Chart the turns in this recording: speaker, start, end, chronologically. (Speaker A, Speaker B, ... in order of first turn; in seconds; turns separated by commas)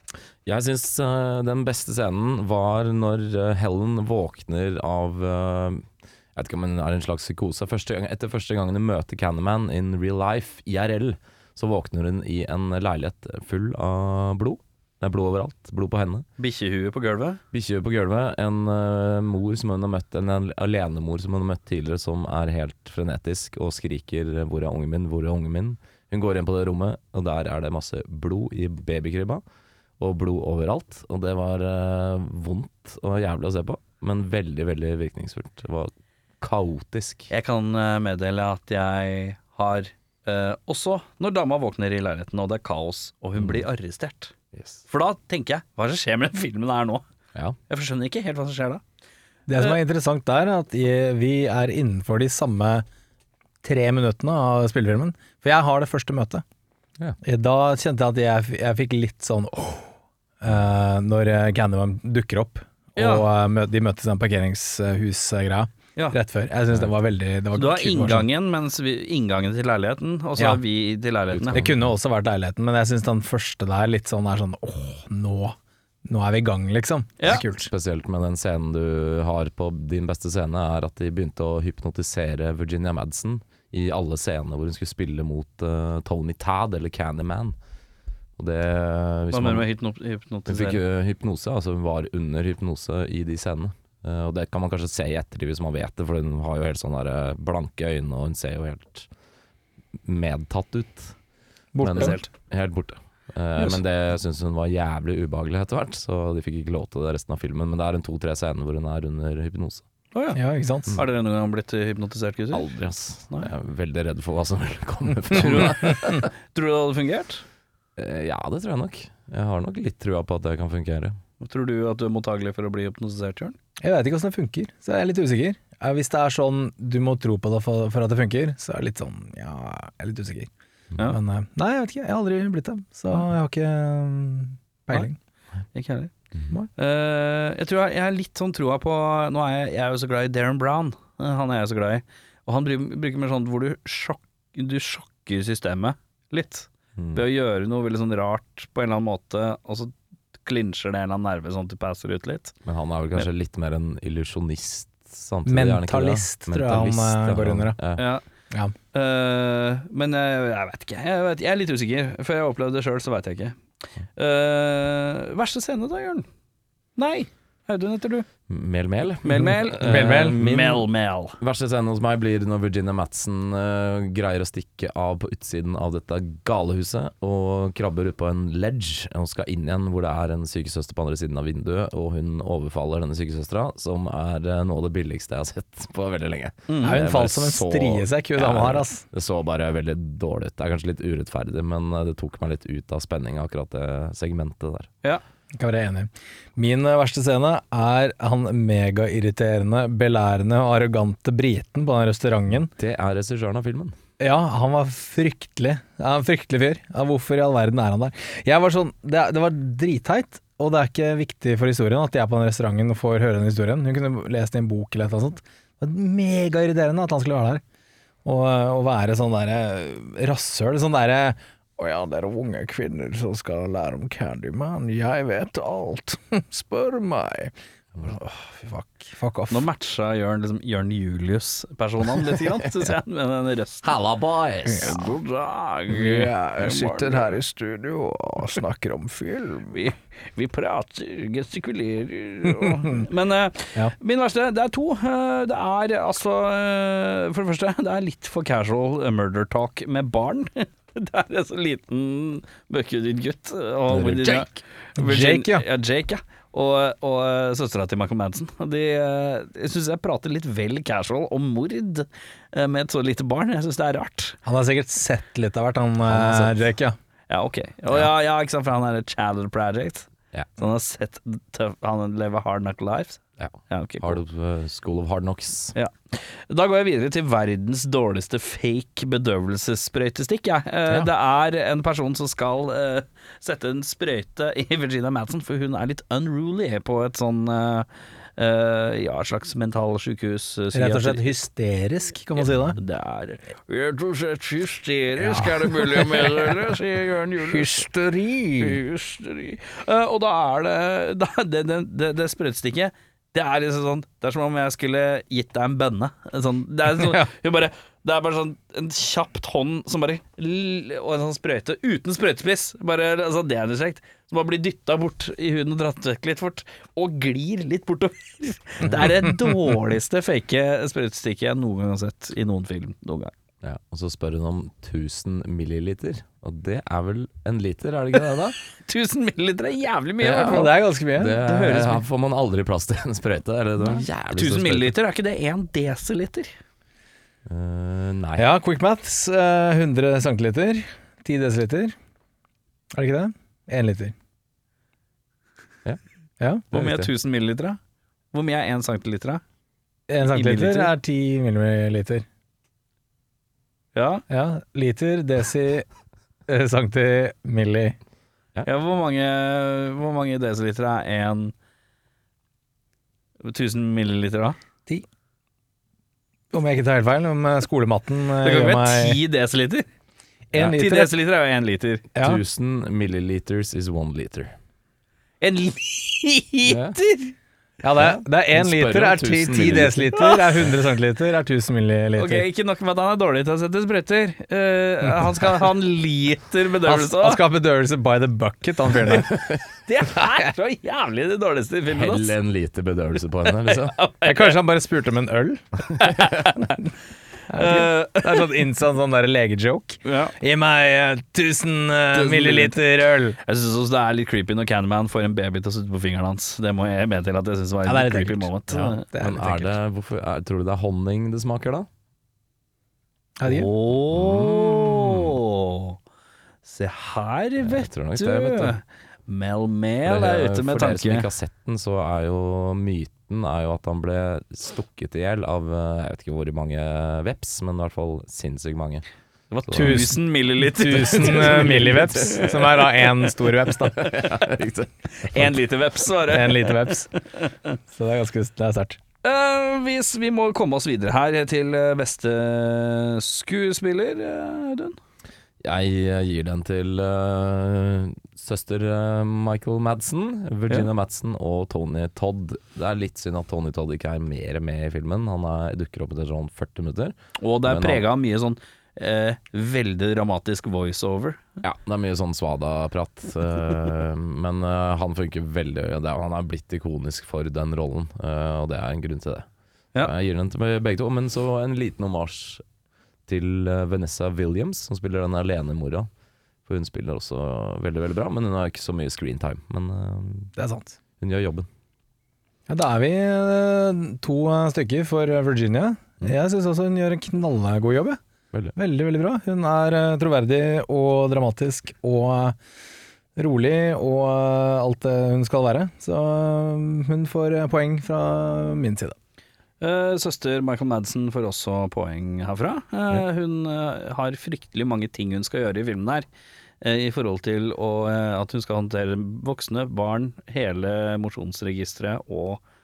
Speaker A: 0.5-16.2, Speaker B: 16.4-17.4, Speaker A: 17.5-29.4, Speaker A: 30.0-37.3, Speaker B: 37.3-44.3, Speaker A: 43.4-43.6, Speaker B: 44.9-47.0, Speaker B: 47.7-48.8, Speaker C: 49.5-52.9, Speaker C: 53.6-56.4, Speaker C: 57.2-68.3, Speaker B: 63.0-63.3, Speaker B: 67.5-71.6, Speaker A: 71.3-71.8, Speaker C: 71.5-77.7, Speaker A: 77.3-87.5, Speaker A: 88.4-89.7, Speaker B: 89.3-90.8, Speaker A: 90.5-99.1, Speaker A: 100.0-101.1, Speaker C: 101.8-102.2, Speaker A: 101.8-109.8, Speaker B: 101.9-102.3, Speaker B: 110.1-110.4, Speaker C: 110.3-111.0, Speaker B: 110.9-112.7, Speaker A: 112.5-116.3, Speaker B: 115.3-117.4, Speaker A: 118.0-121.2, Speaker B: 121.4-123.5, Speaker C: 123.8-130.5, Speaker C: 131.0-135.2, Speaker B: 135.7-136.1, Speaker B: 136.8-152.5, Speaker A: 147.0-147.2, Speaker A: 152.7-158.1, Speaker C: 155.5-157.8, Speaker B: 158.0-158.2, Speaker B: 158.9-163.6, Speaker B: 164.2-166.3, Speaker B: 167.0-168.3, Speaker A: 168.5-170.9, Speaker B: 169.2-171.4, Speaker C: 169.8-170.4, Speaker A: 171.4-194.9, Speaker B: 186.7-187.0, Speaker C: 186.8-189.0, Speaker C: 195.6-202.7, Speaker A: 202.8-203.9, Speaker C: 204.2-217.6, Speaker C: 218.2-229.7, Speaker B: 229.5-233.9, Speaker A: 233.8-235.2, Speaker B: 234.8-237.4, Speaker C: 235.9-239.8, Speaker B: 239.7-264.4, Speaker A: 253.9-254.5, Speaker C: 255.0-255.7, Speaker C: 264.4-267.0, Speaker A: 266.1-266.5, Speaker B: 267.3-274.2, Speaker A: 273.4-275.8, Speaker B: 275.8-291.3, Speaker C: 290.7-292.8, Speaker B: 292.4-297.8, Speaker C: 295.2-296.5, Speaker C: 297.4-298.8, Speaker B: 298.6-323.3, Speaker C: 307.0-307.2, Speaker A: 323.6-328.6, Speaker B: 328.7-330.7, Speaker A: 330.2-334.9, Speaker C: 330.3-331.8, Speaker B: 331.4-332.0, Speaker B: 333.8-336.5, Speaker A: 337.5-338.5, Speaker C: 338.4-342.0, Speaker C: 342.9-344.1, Speaker C: 346.4-346.6, Speaker A: 346.7-347.1, Speaker B: 346.7-347.8, Speaker B: 348.3-349.4, Speaker C: 350.1-352.2, Speaker B: 350.3-350.9, Speaker B: 353.9-354.2, Speaker C: 354.3-355.9, Speaker C: 356.5-358.0, Speaker B: 358.6-361.5, Speaker B: 363.4-364.6, Speaker C: 366.5-369.2, Speaker B: 368.4-369.9, Speaker C: 370.5-371.1, Speaker B: 370.6-372.1, Speaker C: 372.1-372.4, Speaker A: 372.2-374.5, Speaker B: 375.4-377.3, Speaker A: 376.7-377.0, Speaker C: 377.8-382.4, Speaker A: 378.0-380.2, Speaker B: 380.2-380.4, Speaker B: 382.2-387.4, Speaker C: 385.0-385.4, Speaker C: 386.8-389.4, Speaker A: 389.1-389.6, Speaker B: 389.9-392.3, Speaker A: 391.9-394.0, Speaker B: 393.6-394.6, Speaker C: 394.2-395.6, Speaker B: 396.0-396.8, Speaker C: 397.5-403.4, Speaker B: 397.5-398.5, Speaker B: 400.0-400.3, Speaker B: 402.1-402.8, Speaker B: 403.4-409.0, Speaker C: 407.8-409.8, Speaker A: 409.2-411.9, Speaker C: 413.4-413.7, Speaker B: 413.4-416.0, Speaker A: 414.1-415.4, Speaker B: 416.6-421.3, Speaker A: 417.6-418.8, Speaker A: 420.0-429.1, Speaker B: 429.5-432.8, Speaker A: 429.7-430.1, Speaker C: 429.8-434.1, Speaker A: 431.1-432.5, Speaker A: 433.9-435.5, Speaker B: 435.2-437.5, Speaker C: 436.3-437.1, Speaker C: 437.9-439.0, Speaker B: 439.2-445.0, Speaker A: 445.6-458.0, Speaker B: 457.4-461.4, Speaker A: 461.6-469.5, Speaker A: 470.0-472.6, Speaker A: 473.3-476.1, Speaker A: 476.7-480.5, Speaker C: 480.6-480.9, Speaker A: 481.2-481.7, Speaker C: 482.7-488.2, Speaker C: 488.8-492.6, Speaker C: 493.4-499.2, Speaker B: 499.8-506.2, Speaker B: 506.8-512.6